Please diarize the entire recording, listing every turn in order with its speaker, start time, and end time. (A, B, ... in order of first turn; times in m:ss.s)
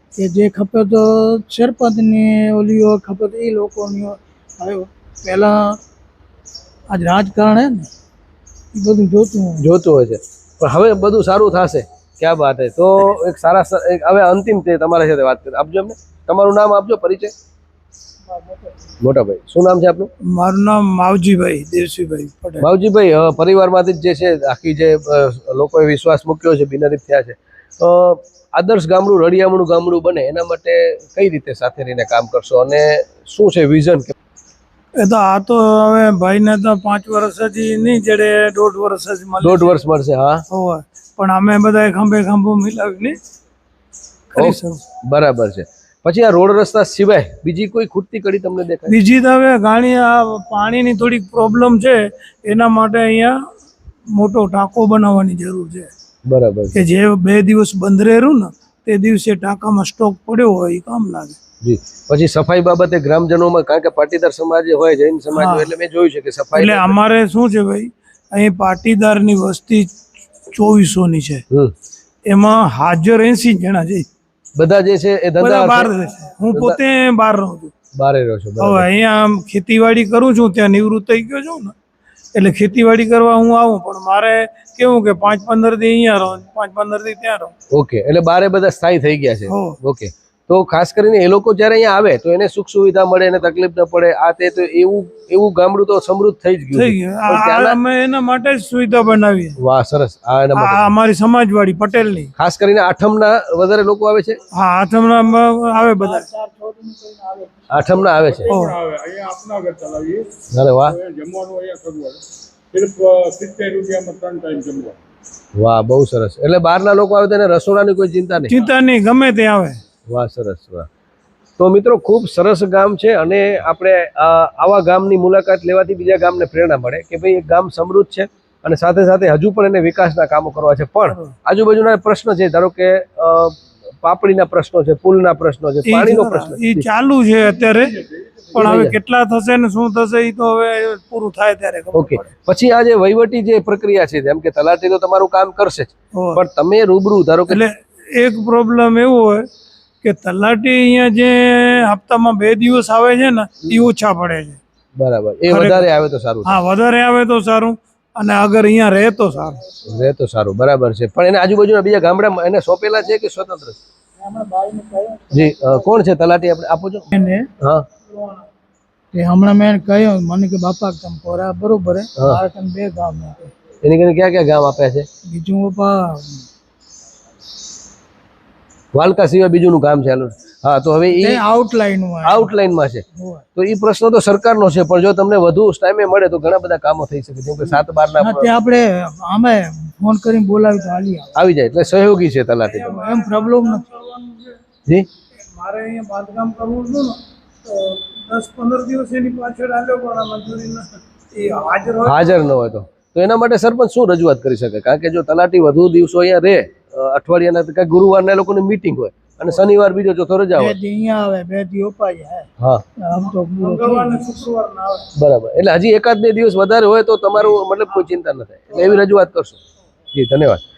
0:00.2-0:05.8 A
0:06.9-0:07.9 A
0:08.7-0:09.7 A
0:09.6-0:17.3 B
0:18.3-0:18.7 A
0:19.0-0:20.1 B
0:20.3-0:22.7 C
0:22.6-0:34.1 B
0:35.0-0:39.8 C
0:39.4-0:40.4 B
0:40.5-0:43.2 C
0:44.3-0:44.8 C
0:44.4-0:48.9 B
0:48.9-0:53.4 C
0:54.1-0:55.9 C
0:56.3-0:56.8 B
0:56.7-1:01.4 C
1:01.6-1:07.0 B
1:05.3-1:05.7 C
1:06.5-1:09.9 C
1:10.5-1:11.4 C
1:12.3-1:14.1 C
1:14.6-1:15.9 B
1:15.4-1:17.7 C
1:16.5-1:16.8 B
1:18.0-1:18.9 B
1:18.6-1:21.8 C
1:22.3-1:27.5 C
1:27.7-1:37.8 B
1:29.5-1:29.8 C
1:36.7-1:39.6 C
1:39.6-1:40.9 B
1:40.6-1:42.3 C
1:42.4-1:44.4 B
1:44.5-1:46.3 C
1:46.0-1:48.2 A
1:47.7-1:48.5 B
1:48.2-1:55.0 D
1:48.5-1:48.8 C
1:50.5-1:51.0 B
1:55.6-1:58.6 B
1:58.4-1:59.8 C
2:00.1-2:00.9 B
2:01.6-2:16.9 B
2:15.8-2:18.0 C
2:17.9-2:18.5 D
2:18.5-2:19.0 B
2:18.5-2:22.2 C
2:21.9-2:27.6 B
2:26.1-2:26.4 C
2:27.5-2:29.5 C
2:30.0-2:34.6 C
2:35.0-2:36.6 B
2:35.5-2:35.9 C
2:36.4-2:39.6 C
2:39.9-2:43.8 B
2:44.2-2:46.0 A
2:45.3-2:47.1 B
2:47.1-2:47.5 A
2:47.6-2:47.9 B
2:49.1-2:53.5 A
2:53.8-2:55.1 B
2:55.3-2:56.5 A
2:58.9-3:01.4 B
3:01.1-3:02.5 A
3:02.2-3:03.0 B
3:03.2-3:03.4 A
3:03.6-3:08.5 B
3:08.2-3:11.4 A
3:11.4-3:13.1 B
3:12.6-3:14.6 C
3:12.9-3:13.9 A
3:15.5-3:22.4 C
3:22.0-3:30.8 B
3:30.6-3:32.5 A
3:32.6-3:32.8 B
3:33.0-3:34.4 A
3:33.2-3:35.1 C
3:35.2-3:39.6 B
3:40.1-3:40.6 B